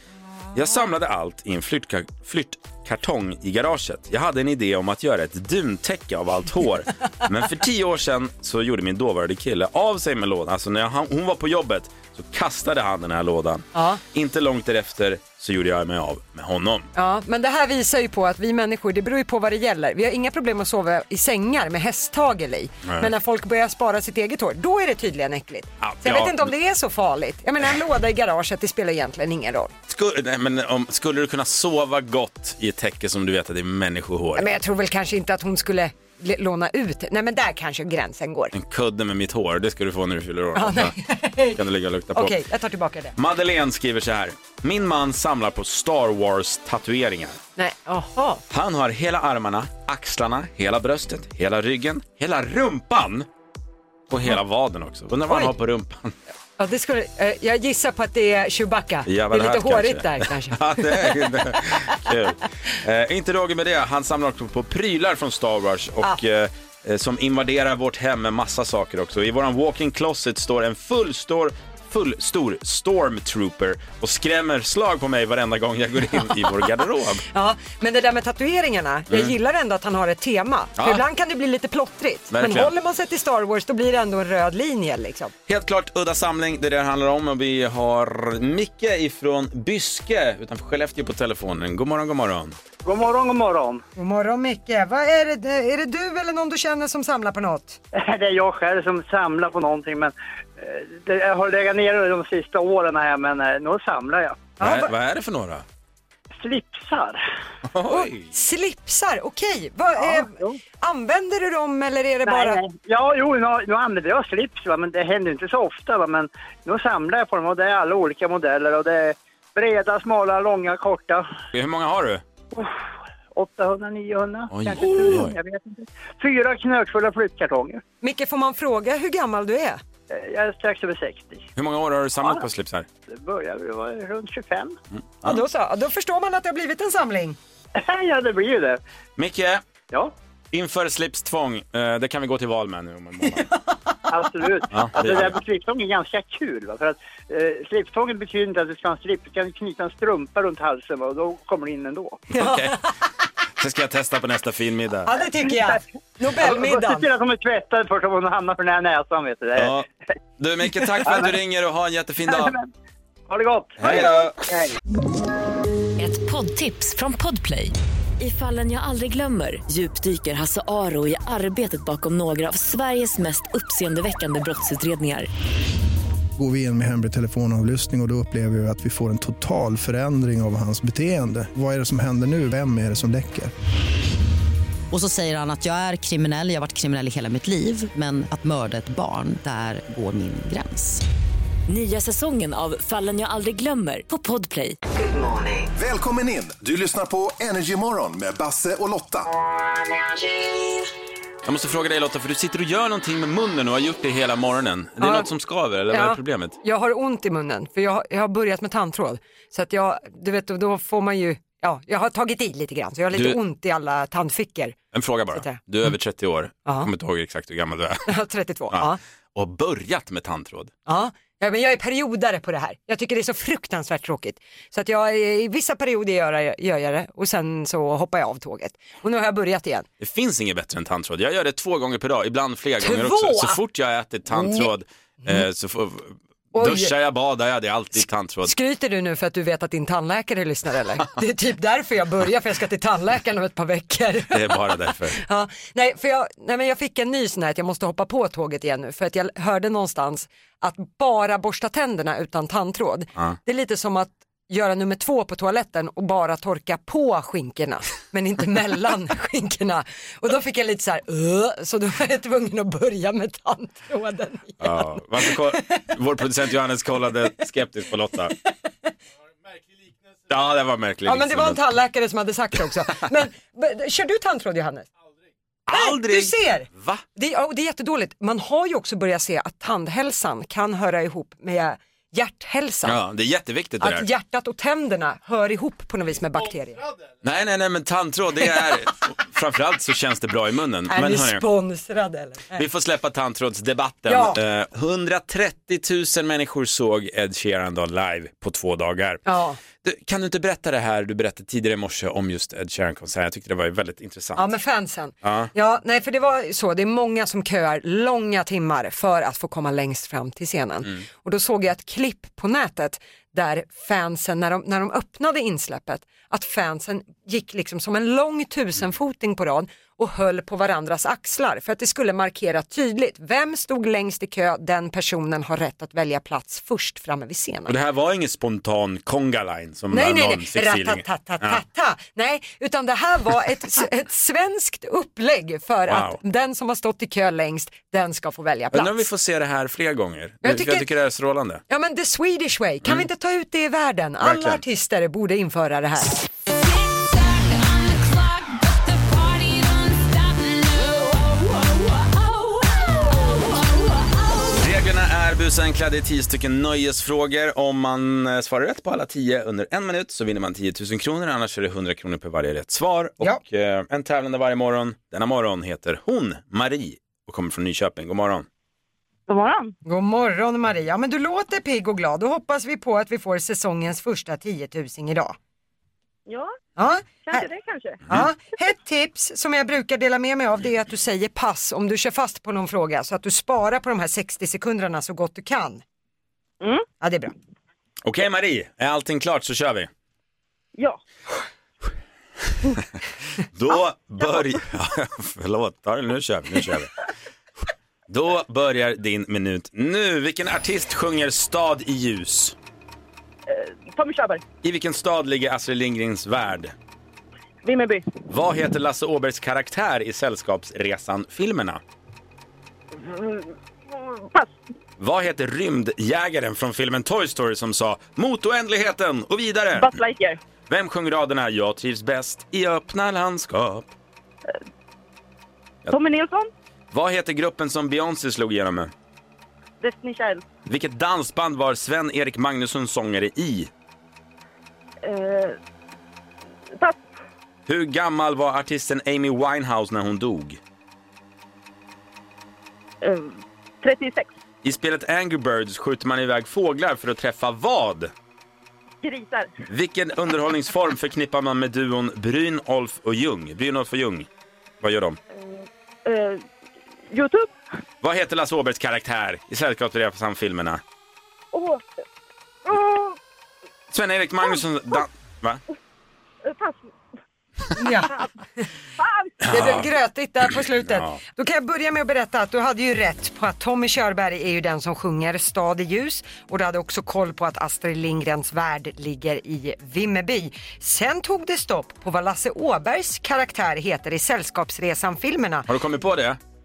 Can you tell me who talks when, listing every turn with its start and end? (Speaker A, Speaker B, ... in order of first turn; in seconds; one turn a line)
Speaker A: 0.5-16.9
Speaker B: 13.7-14.0
Speaker B: 16.9-29.7
Speaker A: 25.8-26.5
Speaker A: 29.9-34.5
Speaker B: 34.3-38.5
Speaker A: 38.5-40.9
Speaker B: 40.5-41.6
Speaker A: 41.5-42.4
Speaker B: 42.1-43.1
Speaker A: 43.1-47.4
Speaker B: 47.5-48.4
Speaker A: 48.5-53.3
Speaker A: 54.1-56.1
Speaker B: 56.6-61.4
Speaker A: 59.0-77.2
Speaker B: 77.3-85.3
Speaker A: 80.8-81.0
Speaker A: 82.3-82.7
Speaker A: 85.5-92.5
Speaker C: 92.8-93.8
Speaker B: 94.0-97.8
Speaker C: 97.9-104.5
Speaker B: 104.6-104.9
Speaker A: 104.6-105.6
Speaker C: 106.4-107.2
Speaker A: 107.7-108.3
Speaker B: 107.9-112.6
Speaker C: 110.0-110.6
Speaker C: 112.2-121.3
Speaker A: 121.5-122.2
Speaker C: 122.5-122.8
Speaker C: 123.3-127.8
Speaker A: 124.5-125.3
Speaker B: 128.0-129.8
Speaker C: 130.1-131.5
Speaker A: 131.6-132.9
Speaker C: 133.1-134.8
Speaker A: 135.0-135.4
Speaker B: 135.2-137.4
Speaker C: 137.8-138.8
Speaker A: 139.2-139.6
Speaker A: 140.5-143.4
Speaker C: 144.1-152.2
Speaker A: 144.7-145.4
Speaker A: 152.3-152.8
Speaker B: 152.3-152.8
Speaker A: 153.6-155.1
Speaker B: 155.1-157.1
Speaker C: 155.5-155.8
Speaker C: 156.3-159.8
Speaker A: 159.6-159.8
Speaker A: 160.4-162.5
Speaker C: 161.0-161.4
Speaker C: 162.3-162.7
Speaker C: 163.3-164.8
Speaker A: 163.8-164.3
Speaker D: 166.0-175.3
Speaker E: 176.4-183.5
Speaker F: 184.9-191.0
Speaker D: 191.7-194.8
Speaker G: 195.7-199.3
Speaker A: 201.4-206.6
Speaker B: 205.0-205.3
Speaker B: 205.9-215.6
Speaker A: 213.1-213.4
Speaker A: 214.9-218.1
Speaker B: 218.1-219.0
Speaker A: 218.7-220.7
Speaker B: 220.8-229.8
Speaker A: 230.0-238.5
Speaker B: 232.8-233.6
Speaker B: 234.3-234.7
Speaker B: 236.5-236.9
Speaker B: 238.4-265.8
Speaker A: 244.3-245.2
Speaker A: 264.6-268.3
Speaker A: 270.3-271.6
Speaker B: 271.0-274.9
Speaker A: 275.7-277.0
Speaker B: 275.7-283.0
Speaker A: 282.8-284.1
Speaker B: 283.8-286.8
Speaker A: 287.2-291.4
Speaker B: 290.9-292.6
Speaker A: 292.6-299.2
Speaker B: 294.1-294.4
Speaker B: 299.2-299.6
Speaker A: 299.8-304.5
Speaker B: 304.4-327.8
Speaker A: 305.2-305.5
Speaker A: 327.7-331.6
Speaker B: 329.9-339.0
Speaker A: 335.9-336.2
Speaker A: 338.7-341.6
Speaker B: 340.4-340.9
Speaker B: 341.7-346.2
Speaker A: 344.2-344.6
Speaker A: 354.6-368.5
Speaker H: 369.3-369.7
Speaker B: 369.8-375.4
Speaker H: 376.3-376.5
Speaker B: 376.8-377.4
Speaker H: 377.2-378.0
Speaker B: 378.1-385.8
Speaker H: 386.6-386.9
Speaker B: 387.0-387.3
Speaker A: 388.0-389.9
Speaker A: 393.5-396.9
Speaker A: 398.1-402.6
Speaker H: 403.5-404.4
Speaker A: 404.6-406.7
Speaker H: 407.6-408.1
Speaker A: 408.3-411.8
Speaker H: 412.9-414.6
Speaker A: 415.0-419.9
Speaker H: 419.8-420.4
Speaker A: 420.7-423.9
Speaker H: 425.9-426.5
Speaker A: 426.9-428.9
Speaker H: 429.8-430.4
Speaker A: 430.7-433.7
Speaker H: 435.0-435.6
Speaker A: 437.7-440.6
Speaker H: 443.0-444.3
Speaker A: 444.6-448.1
Speaker H: 449.0-449.6
Speaker A: 449.7-454.3
Speaker A: 454.8-455.2
Speaker H: 455.3-456.4
Speaker H: 457.1-457.5
Speaker A: 458.0-460.8
Speaker H: 461.5-461.9
Speaker H: 462.6-463.2
Speaker A: 463.9-465.6
Speaker H: 466.4-466.9
Speaker B: 467.8-468.6
Speaker H: 469.0-469.4
Speaker A: 469.4-469.9
Speaker B: 469.5-485.7
Speaker A: 470.7-471.2
Speaker A: 485.7-486.4